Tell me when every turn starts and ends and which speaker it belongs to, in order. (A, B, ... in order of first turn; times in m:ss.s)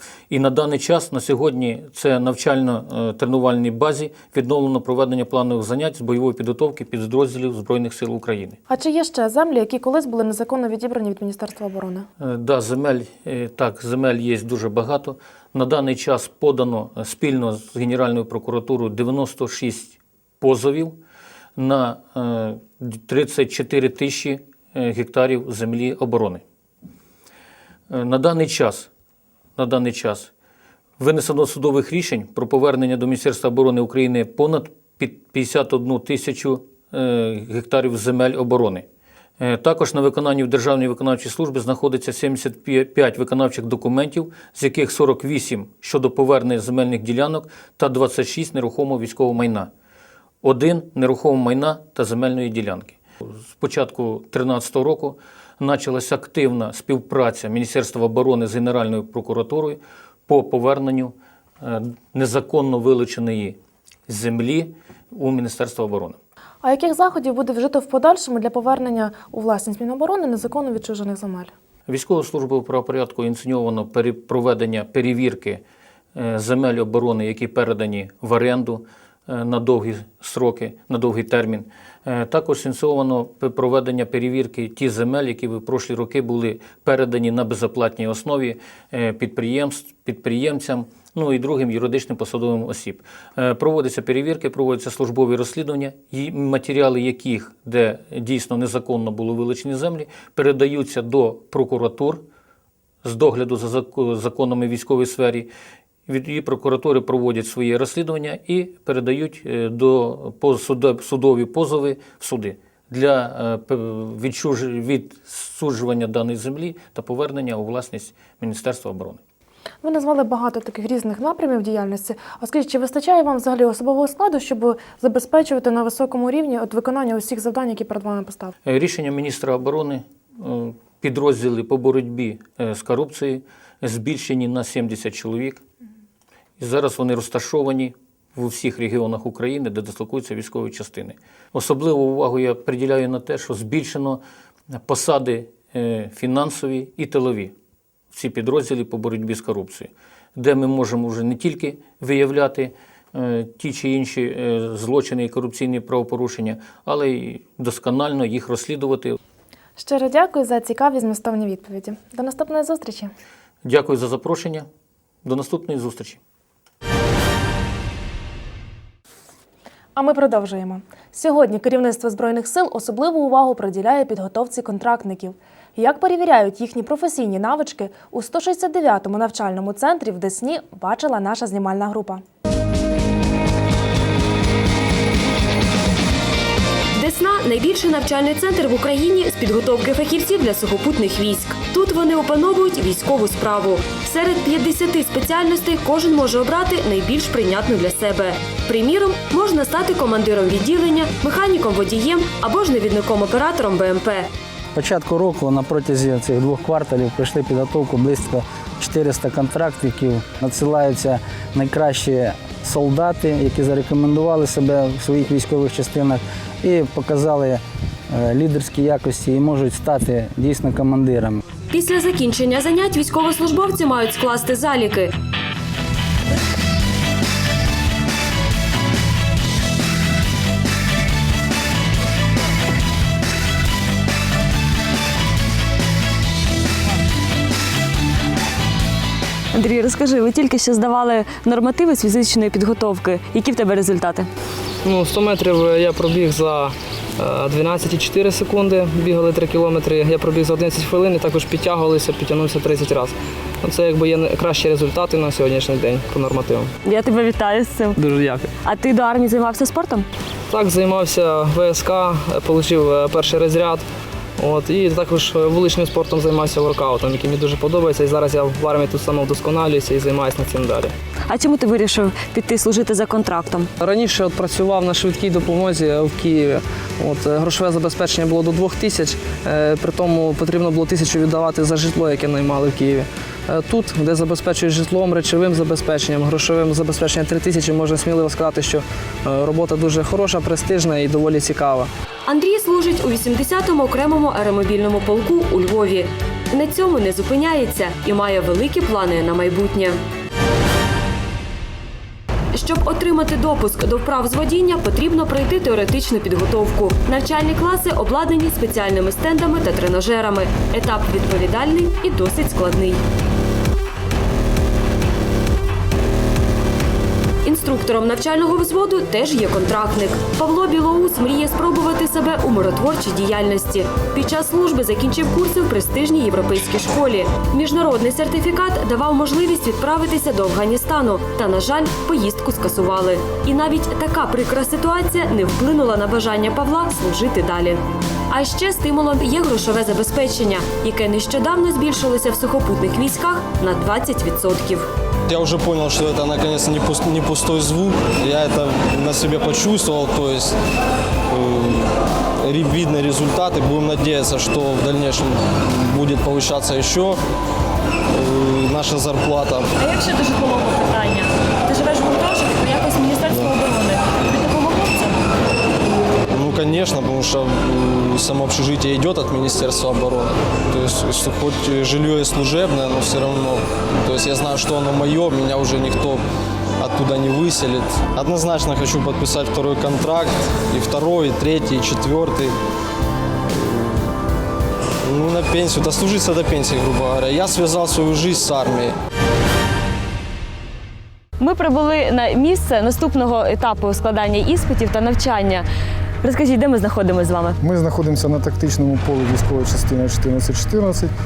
0:00.3-0:08.6 A
0:08.7-0:12.1 B
0:12.2-0:21.0 A
0:21.6-0:26.4 A
0:27.9-0:28.9 A
0:29.6-0:30.3 A
0:31.0-0:38.9 A
0:39.4-0:49.7 A
0:50.4-1:06.2 A
1:06.6-1:11.5 B
1:11.9-1:15.6 A
1:16.2-1:42.2 A
1:43.0-1:45.5 A
1:46.1-1:59.2 A
1:59.8-2:08.5 B
2:08.6-2:15.6 A
2:16.6-2:24.2 A
2:24.7-2:27.5 A
2:28.1-2:39.2 A
2:39.8-2:43.1 B
2:43.6-2:44.7 A
2:45.2-2:46.2 A
2:50.0-3:02.2 B
3:07.0-3:24.3 C
3:24.7-3:41.4 D
3:41.7-3:45.1 C
3:59.5-4:04.3 E
4:04.8-4:16.7 F
4:16.8-4:18.0 E
4:18.0-4:18.5 F
4:18.6-4:20.1 E
4:20.5-4:23.8 F
4:24.4-4:30.9 F
4:31.3-4:33.7 E
4:33.8-4:51.9 F
4:52.3-5:00.0 C
5:02.5-5:13.0 C
5:17.4-5:44.9 C
5:45.3-5:50.6 G
5:51.3-5:57.2 G
5:58.1-5:59.7 G
5:59.8-6:05.3 E
6:06.3-6:16.2 G
6:16.8-6:22.6 G
6:23.4-6:24.2 G
6:25.0-6:29.0 G
6:31.4-6:35.7 E
6:36.2-6:37.6 E
6:37.6-6:41.1 H